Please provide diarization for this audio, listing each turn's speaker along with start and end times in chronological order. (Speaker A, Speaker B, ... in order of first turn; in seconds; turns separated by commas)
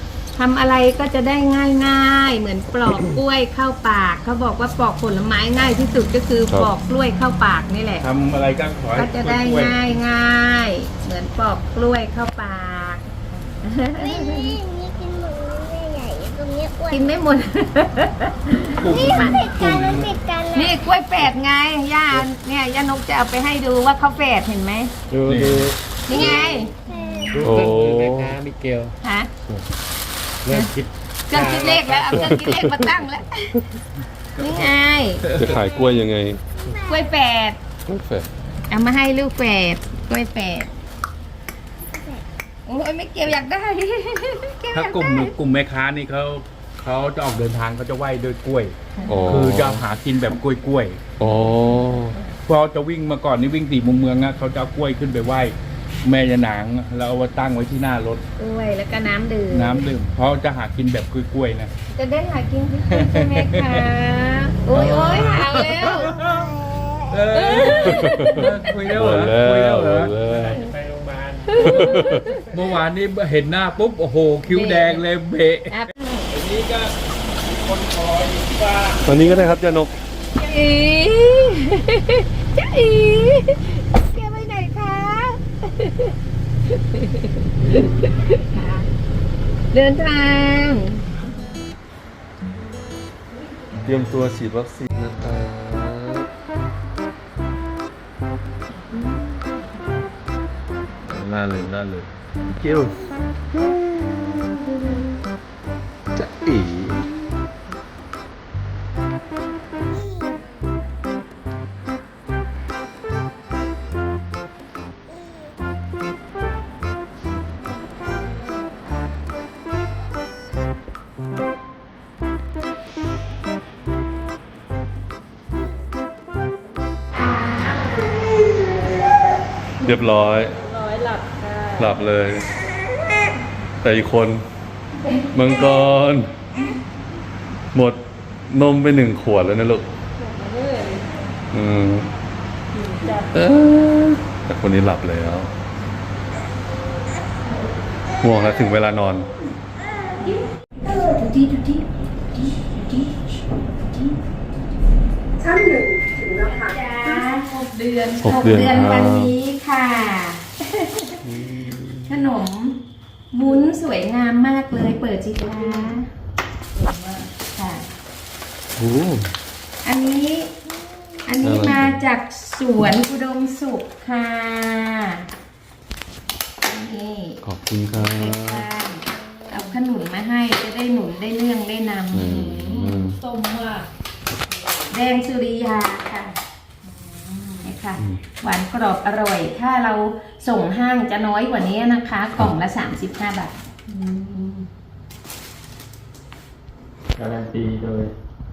Speaker A: 0.3-8.1, Speaker B: 8.0-9.9, Speaker A: 8.9-13.0, Speaker A: 13.6-14.6, Speaker C: 14.0-17.1, Speaker A: 16.9-19.5, Speaker B: 18.8-20.1, Speaker C: 18.9-20.8, Speaker A: 20.5-24.9, Speaker D: 25.1-26.6, Speaker B: 25.2-25.7, Speaker A: 26.1-26.8, Speaker C: 26.3-27.5, Speaker D: 27.3-29.0, Speaker E: 27.4-28.4, Speaker A: 29.0-29.3, Speaker D: 30.4-32.9, Speaker A: 31.3-33.5, Speaker E: 32.2-32.6, Speaker A: 34.4-35.3, Speaker B: 34.4-34.7, Speaker B: 35.2-35.7, Speaker E: 35.3-36.4, Speaker A: 36.8-37.6, Speaker E: 37.9-38.3, Speaker A: 38.7-40.7, Speaker A: 42.7-45.4, Speaker B: 44.7-48.8, Speaker A: 49.0-49.3, Speaker E: 49.1-49.8, Speaker B: 49.3-51.0, Speaker E: 51.2-52.2, Speaker B: 52.5-58.2, Speaker A: 58.4-59.8, Speaker B: 59.5-61.7, Speaker A: 61.9-66.2, Speaker B: 62.9-63.9, Speaker B: 64.7-66.5, Speaker B: 67.1-70.6, Speaker A: 67.3-68.6, Speaker E: 67.9-70.5, Speaker D: 70.2-72.4, Speaker A: 71.5-72.5, Speaker E: 71.6-72.4, Speaker B: 72.5-75.8, Speaker A: 74.5-75.0, Speaker A: 75.7-76.3, Speaker B: 76.3-79.1, Speaker E: 79.0-79.9, Speaker A: 80.4-86.2, Speaker A: 86.7-88.9, Speaker A: 89.7-91.1, Speaker E: 93.8-96.3, Speaker E: 101.1-103.0, Speaker E: 103.7-104.0, Speaker E: 106.2-107.1, Speaker E: 129.8-130.5, Speaker F: 130.5-132.1, Speaker E: 131.8-132.5, Speaker E: 133.8-134.4, Speaker E: 135.3-136.3, Speaker E: 137.7-139.9, Speaker F: 140.2-141.1, Speaker E: 141.5-142.1, Speaker F: 142.7-143.4, Speaker E: 143.3-145.5, Speaker E: 148.2-149.3, Speaker A: 150.2-151.8, Speaker A: 152.6-153.1, Speaker F: 156.0-158.1, Speaker A: 156.4-161.2, Speaker E: 158.2-159.4, Speaker E: 161.2-162.2, Speaker A: 162.1-162.8, Speaker A: 163.3-166.1, Speaker F: 165.5-166.0, Speaker F: 166.8-167.3, Speaker A: 167.4-167.9, Speaker E: 168.8-169.3, Speaker A: 169.8-170.5, Speaker A: 171.2-175.3, Speaker E: 171.4-172.0, Speaker A: 176.7-177.4, Speaker E: 177.4-178.7, Speaker A: 178.0-182.8, Speaker F: 179.4-179.8, Speaker E: 182.1-183.2, Speaker F: 182.4-183.9, Speaker F: 184.5-184.9, Speaker A: 184.9-186.4, Speaker F: 186.8-187.7, Speaker A: 187.6-193.6, Speaker F: 193.9-194.7, Speaker D: 197.2-198.1